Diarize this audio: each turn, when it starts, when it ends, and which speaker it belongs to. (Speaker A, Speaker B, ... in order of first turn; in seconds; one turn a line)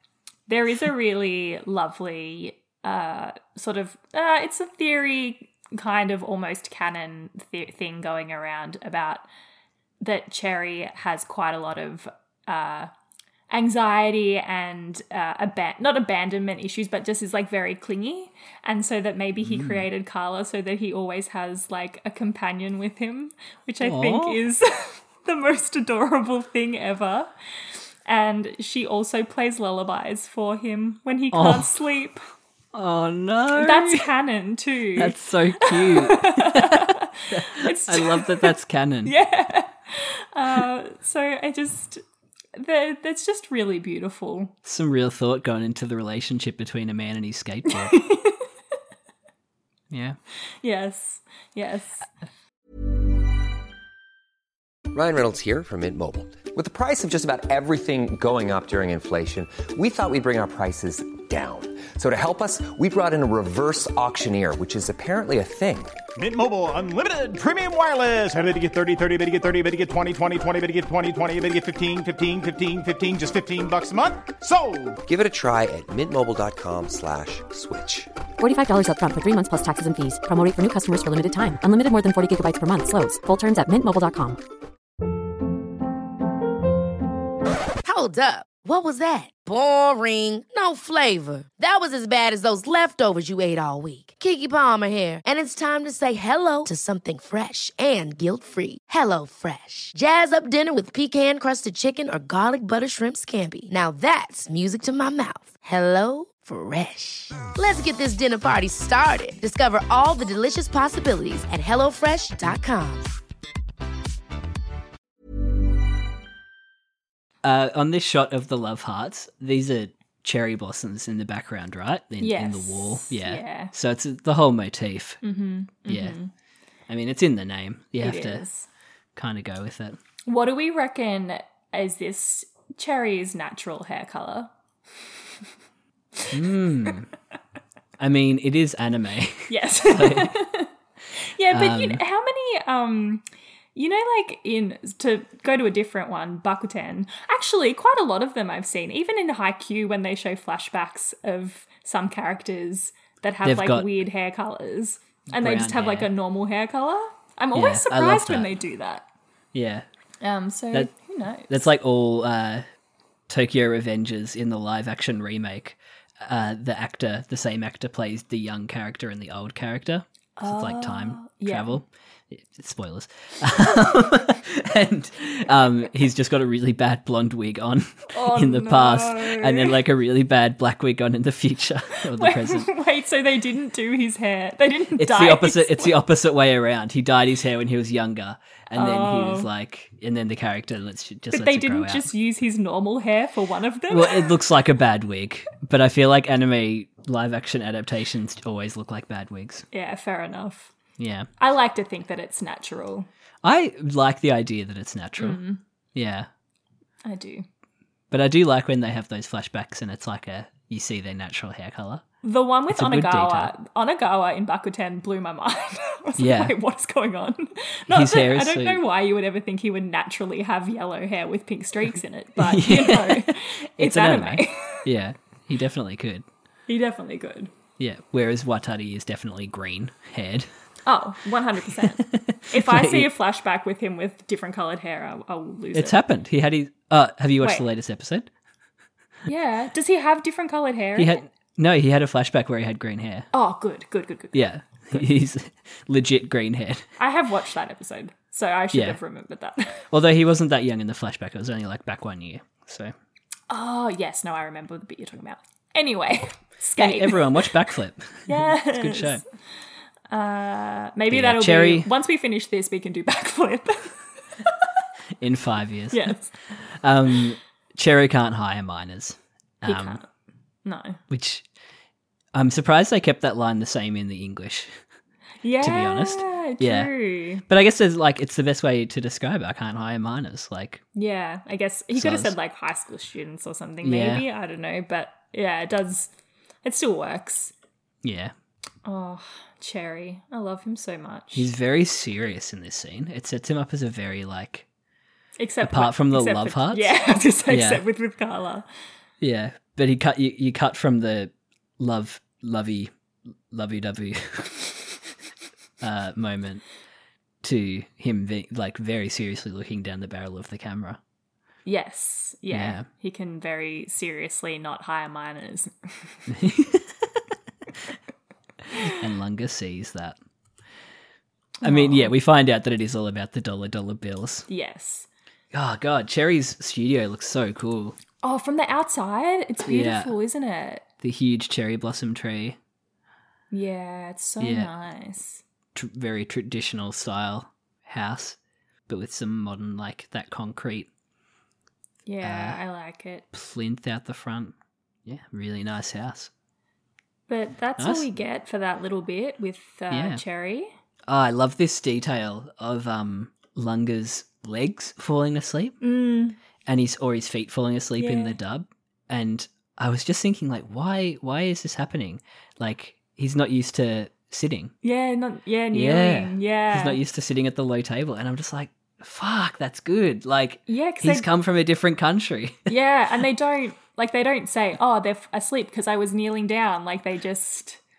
Speaker A: 0.5-9.2
Speaker A: 10.0-12.9
Speaker A: 13.5-27.3
Speaker B: 19.4-19.9
Speaker B: 23.8-24.4
Speaker A: 28.1-32.2
Speaker B: 31.3-31.7
Speaker B: 32.7-34.1
Speaker A: 33.5-38.5
Speaker B: 35.0-39.1
Speaker A: 39.0-42.0
Speaker A: 42.5-44.5
Speaker B: 44.6-48.0
Speaker A: 47.7-48.4
Speaker B: 49.9-50.2
Speaker A: 50.6-52.1
Speaker C: 54.9-65.9
Speaker D: 66.2-75.0
Speaker C: 75.0-78.1
Speaker E: 78.4-84.4
Speaker F: 87.8-113.1
Speaker B: 117.4-125.2
Speaker A: 122.2-123.7
Speaker A: 125.2-126.3
Speaker B: 125.9-126.2
Speaker B: 126.9-128.4
Speaker A: 128.0-128.7
Speaker B: 129.2-130.0
Speaker A: 130.2-134.5
Speaker B: 136.3-137.1
Speaker B: 138.0-140.3
Speaker A: 139.5-159.1
Speaker B: 141.5-142.0
Speaker B: 153.4-153.9
Speaker B: 155.3-156.1
Speaker B: 157.5-158.5
Speaker B: 159.5-159.8
Speaker A: 160.2-161.6
Speaker B: 161.5-162.6
Speaker B: 163.3-182.7
Speaker A: 170.4-171.8
Speaker A: 178.1-179.8
Speaker A: 182.1-186.0
Speaker B: 185.0-192.1
Speaker A: 188.7-189.5
Speaker A: 191.3-194.3
Speaker B: 193.9-199.7
Speaker A: 199.7-200.7
Speaker B: 201.0-201.3
Speaker A: 201.4-203.1
Speaker B: 203.4-205.4
Speaker A: 205.2-205.6
Speaker B: 205.9-206.3
Speaker A: 207.0-207.4
Speaker B: 208.1-212.0
Speaker A: 212.2-224.8
Speaker B: 212.7-213.5
Speaker B: 216.2-216.6
Speaker B: 217.9-218.8
Speaker B: 222.4-226.2
Speaker A: 226.7-227.5
Speaker B: 227.8-230.5
Speaker A: 230.8-235.9
Speaker B: 232.0-233.1
Speaker B: 235.7-238.3
Speaker A: 237.4-237.6
Speaker A: 239.3-241.2
Speaker B: 240.9-243.3
Speaker A: 243.3-245.1
Speaker B: 244.3-246.8
Speaker A: 247.0-249.8
Speaker B: 248.7-249.0
Speaker B: 249.9-252.9
Speaker A: 253.5-257.5
Speaker B: 256.8-259.2
Speaker A: 258.3-259.2
Speaker A: 260.1-264.0
Speaker B: 261.1-261.9
Speaker B: 265.2-266.1
Speaker A: 265.9-266.3
Speaker B: 266.8-270.0
Speaker A: 269.6-270.1
Speaker A: 270.6-271.0
Speaker B: 271.1-271.4
Speaker B: 272.3-274.7
Speaker A: 275.4-277.4
Speaker B: 275.6-276.9
Speaker B: 277.4-280.8
Speaker A: 280.9-286.1
Speaker B: 281.9-282.3
Speaker B: 283.8-284.2
Speaker A: 286.6-287.5
Speaker B: 288.0-288.3
Speaker A: 288.8-291.5
Speaker B: 291.3-294.6
Speaker A: 295.4-298.6
Speaker B: 295.6-296.9
Speaker B: 297.5-297.8
Speaker B: 299.2-302.9
Speaker B: 303.5-304.6
Speaker B: 305.8-306.6
Speaker B: 307.4-311.0
Speaker A: 311.6-316.2
Speaker B: 312.5-312.8
Speaker B: 316.3-316.9
Speaker B: 318.8-320.1
Speaker A: 321.6-322.1
Speaker B: 321.6-324.5
Speaker A: 324.5-325.1
Speaker B: 325.5-328.0
Speaker A: 328.2-330.8
Speaker B: 329.6-330.1
Speaker B: 331.0-332.6
Speaker A: 333.5-335.4
Speaker B: 334.4-334.7
Speaker B: 335.7-338.4
Speaker B: 338.9-340.9
Speaker A: 342.1-343.2
Speaker B: 342.2-342.6
Speaker B: 343.3-344.5
Speaker B: 345.1-346.3
Speaker A: 347.3-350.7
Speaker B: 347.8-348.0
Speaker B: 349.9-350.2
Speaker B: 351.1-355.8
Speaker A: 355.8-356.4
Speaker B: 356.6-364.7
Speaker A: 358.0-358.4
Speaker A: 364.8-367.0
Speaker B: 365.7-372.7
Speaker A: 370.7-371.3
Speaker A: 372.7-377.8